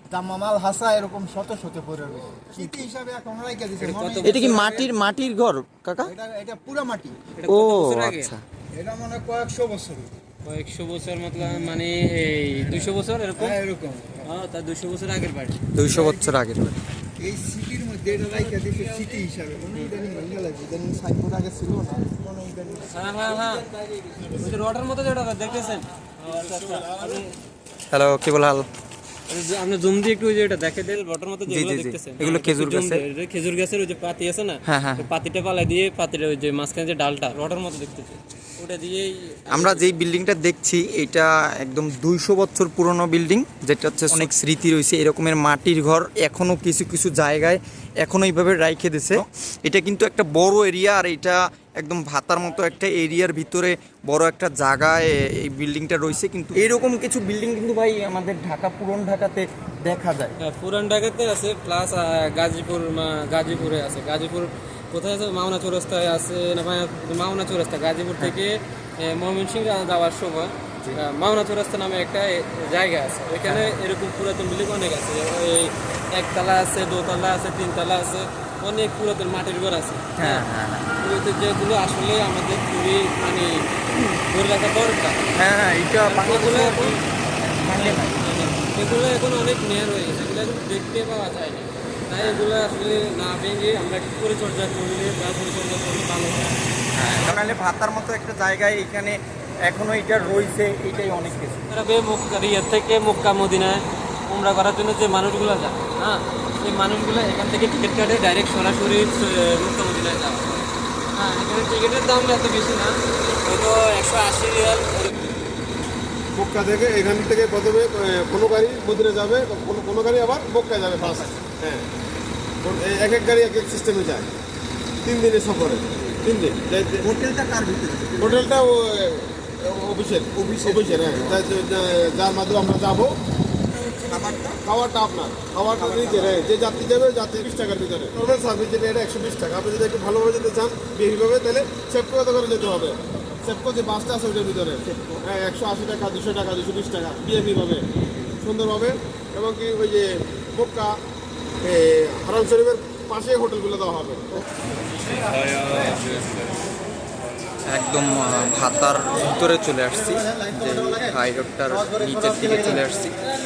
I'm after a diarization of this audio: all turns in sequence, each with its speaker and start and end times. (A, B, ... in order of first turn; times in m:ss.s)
0:00.1-0:04.6 A
0:03.8-0:04.9 B
0:04.2-0:06.1 C
0:06.0-0:07.2 A
0:07.4-0:08.3 B
0:07.5-0:08.4 C
0:08.7-0:10.1 A
0:10.4-0:13.6 B
0:13.4-0:14.3 A
0:14.2-0:15.6 B
0:15.7-0:16.8 C
0:15.8-0:16.4 A
0:17.2-0:23.0 A
0:22.9-0:23.7 B
0:24.2-0:27.3 B
0:27.9-0:28.7 C
0:29.3-0:39.9 B
0:31.5-0:33.0 C
0:34.7-0:35.1 C
0:39.5-1:00.4 C
1:00.4-1:25.2 B
1:20.2-1:20.9 C
1:25.4-1:28.3 C
1:26.0-1:27.0 B
1:27.7-1:36.6 B
1:32.2-1:32.4 C
1:37.0-1:41.6 C
1:41.7-1:55.4 B
1:56.3-2:01.9 D
2:01.0-2:01.4 C
2:02.6-2:04.3 D
2:05.0-2:07.1 D
2:07.0-2:08.4 C
2:08.2-2:13.2 D
2:10.4-2:11.4 C
2:13.8-2:14.6 C
2:14.6-2:27.9 D
2:15.8-2:16.4 C
2:28.4-2:31.0 D
2:31.6-2:34.4 D
2:35.7-2:36.0 B
2:37.7-2:43.2 C